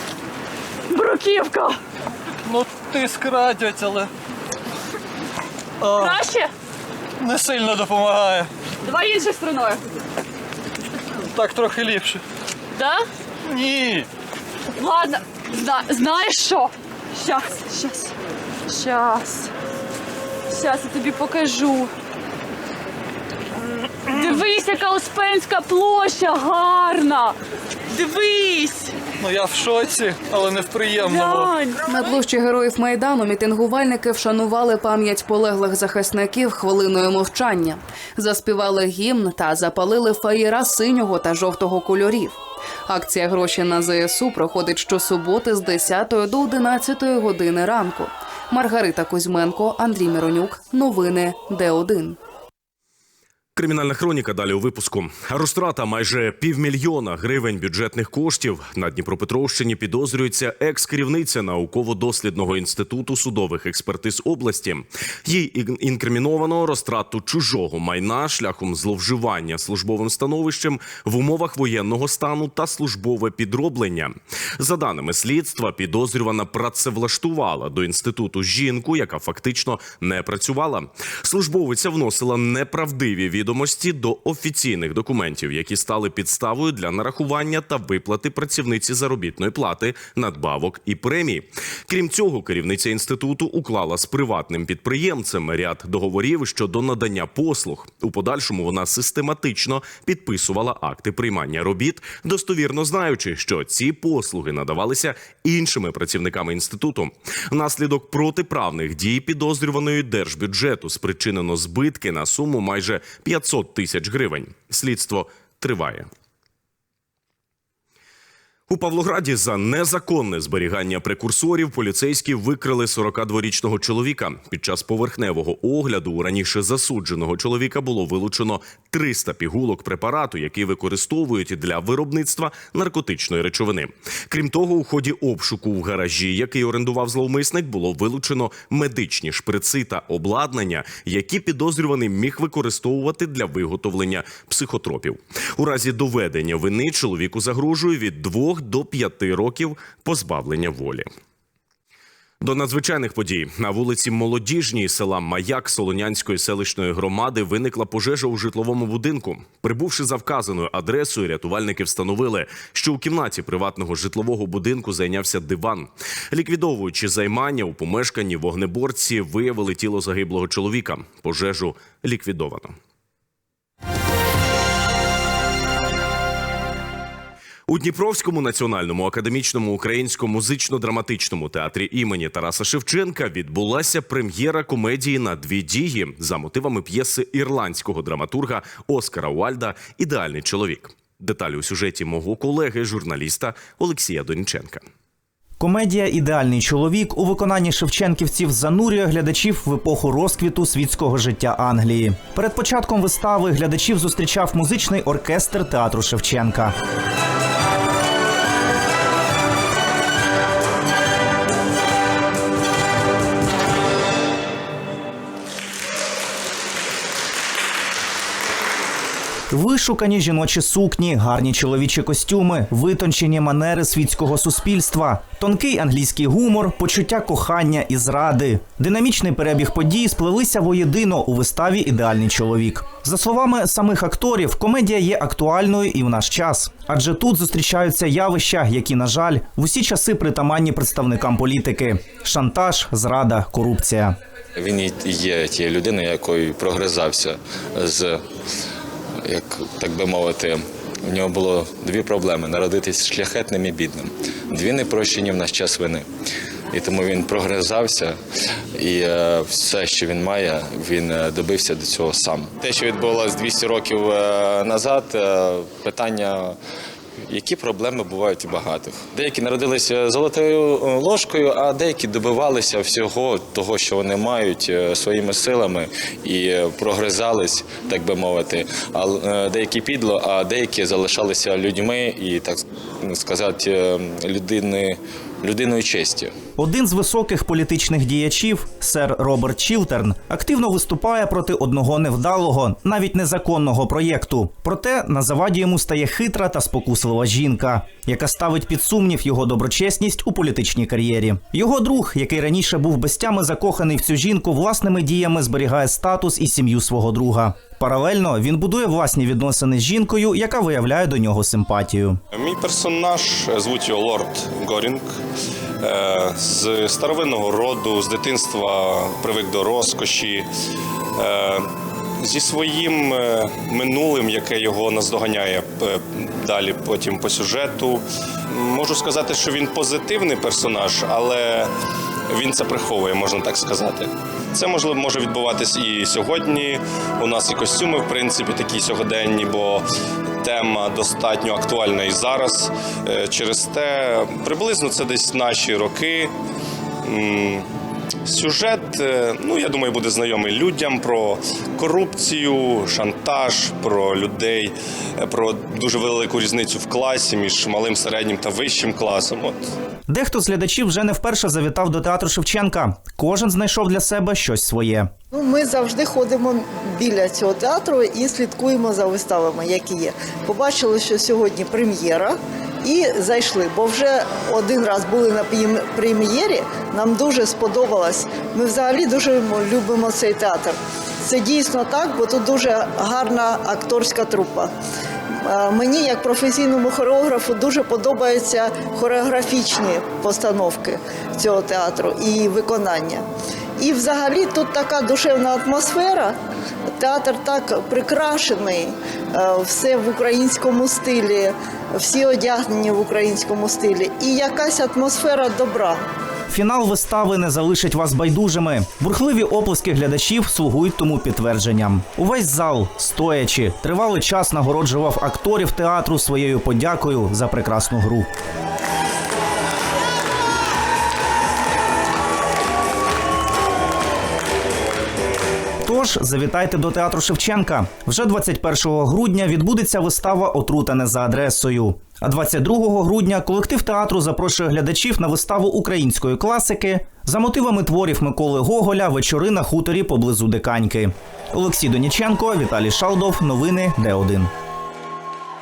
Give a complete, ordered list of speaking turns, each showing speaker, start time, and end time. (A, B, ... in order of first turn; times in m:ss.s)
0:00.9-0:01.8 A
0:02.4-0:04.1 B
0:05.8-0:06.2 B
0:05.8-0:06.5 A
0:07.2-0:08.5 B
0:08.8-0:09.8 A
0:11.3-0:12.2 B
0:12.8-0:13.1 A
0:13.5-0:14.1 B
0:14.8-0:18.1 A
0:18.7-0:19.5 A
0:20.5-0:21.9 A
0:24.1-0:27.4 A
0:27.9-0:28.9 A
0:29.2-0:31.5 B
0:31.0-0:31.8 A
0:31.9-0:52.2 C
0:53.6-1:56.1 D
1:58.7-2:31.1 D
2:32.4-2:52.8 D
2:57.7-3:14.8 D
3:15.6-3:26.7 E
3:39.5-4:04.2 E
4:04.6-4:08.3 F
4:09.2-4:16.1 F
4:16.7-4:18.2 F
4:18.8-4:26.6 F
4:27.3-4:46.3 F
4:46.6-5:12.2 E
5:12.3-5:15.0 G
5:15.8-5:20.5 G
5:21.2-5:31.7 G
5:32.3-5:39.8 G
5:40.4-5:46.3 G
5:47.0-5:47.7 G
5:48.3-5:59.7 G
6:00.1-6:05.1 E
6:05.3-6:24.7 H
6:25.4-6:33.2 H
6:33.8-6:36.4 H
6:37.0-6:46.0 H
6:46.5-6:58.3 E
7:05.8-7:24.5 E